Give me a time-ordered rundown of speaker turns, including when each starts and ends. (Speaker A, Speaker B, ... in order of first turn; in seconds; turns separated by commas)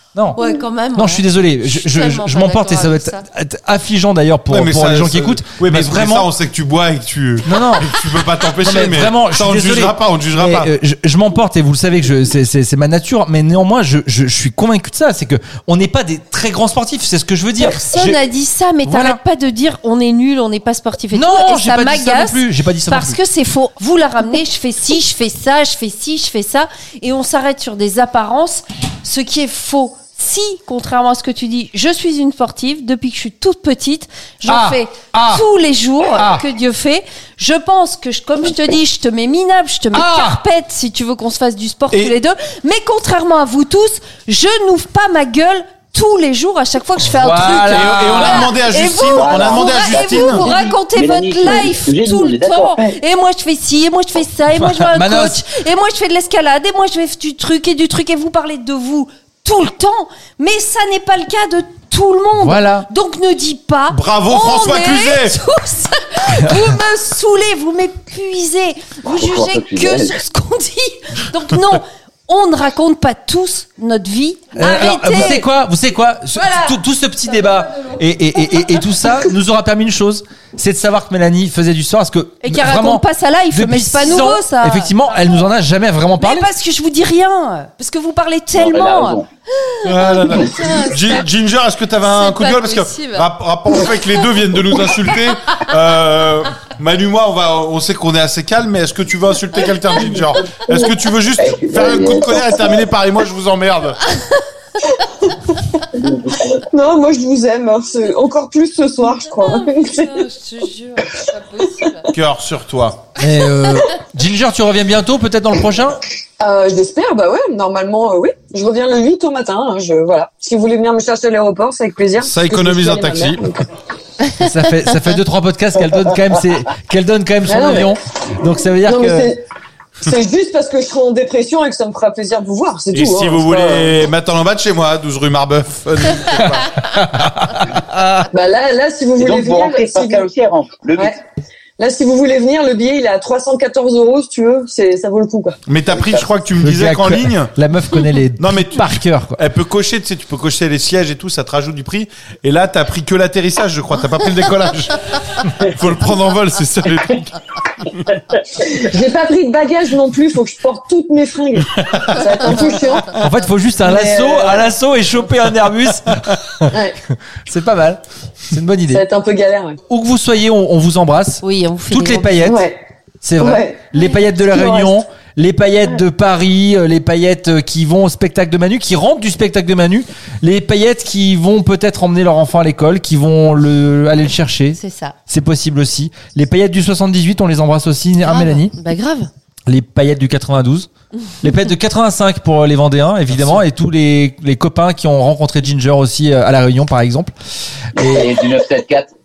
Speaker A: 0.4-3.2, Speaker B: 0.9-6.3, Speaker C: 4.5-10.7, Speaker B: 7.5-18.2, Speaker A: 17.7-75.5, Speaker B: 18.8-19.2, Speaker B: 21.1-23.2, Speaker B: 34.5-35.5, Speaker B: 36.1-36.4, Speaker B: 39.9-40.4, Speaker C: 41.9-42.2, Speaker B: 47.1-48.5, Speaker C: 47.6-50.5, Speaker D: 49.1-53.0, Speaker B: 54.7-55.4, Speaker B: 62.4-62.9, Speaker C: 63.9-65.4, Speaker D: 69.0-70.2, Speaker B: 74.5-86.5, Speaker A: 82.4-84.9, Speaker A: 86.2-90.1, Speaker D: 88.5-89.3, Speaker C: 89.8-104.0, Speaker D: 90.3-90.6, Speaker A: 90.6-91.1, Speaker A: 92.0-93.2, Speaker D: 101.4-102.5, Speaker E: 101.7-102.8, Speaker D: 105.9-106.5, Speaker E: 106.7-110.3, Speaker A: 109.3-112.0, Speaker C: 112.1-113.0, Speaker B: 113.2-116.0, Speaker E: 116.4-123.6, Speaker C: 122.2-123.4, Speaker B: 124.3-129.3, Speaker E: 127.5-127.9, Speaker E: 128.8-129.4, Speaker E: 130.0-134.0, Speaker C: 132.9-136.7, Speaker B: 136.6-138.2, Speaker E: 138.3-140.2, Speaker D: 139.2-141.1, Speaker E: 141.8-145.6, Speaker C: 145.7-147.5, Speaker D: 145.8-146.4, Speaker B: 146.6-149.4, Speaker C: 148.4-157.3, Speaker E: 158.6-163.1, Speaker C: 161.8-162.6, Speaker B: 163.1-166.6, Speaker E: 163.8-164.7, Speaker E: 166.7-166.9, Speaker B: 167.4-169.0, Speaker E: 168.9-169.8, Speaker B: 169.9-172.6, Speaker A: 171.4-172.3, Speaker E: 172.4-172.8, Speaker B: 173.2-188.7, Speaker E: 173.4-175.0, Speaker A: 184.8-185.1, Speaker A: 188.3-189.3, Speaker B: 189.7-190.9, Speaker B: 191.4-197.3, Speaker C: 193.3-193.6, Speaker B: 197.9-198.3, Speaker D: 198.0-199.1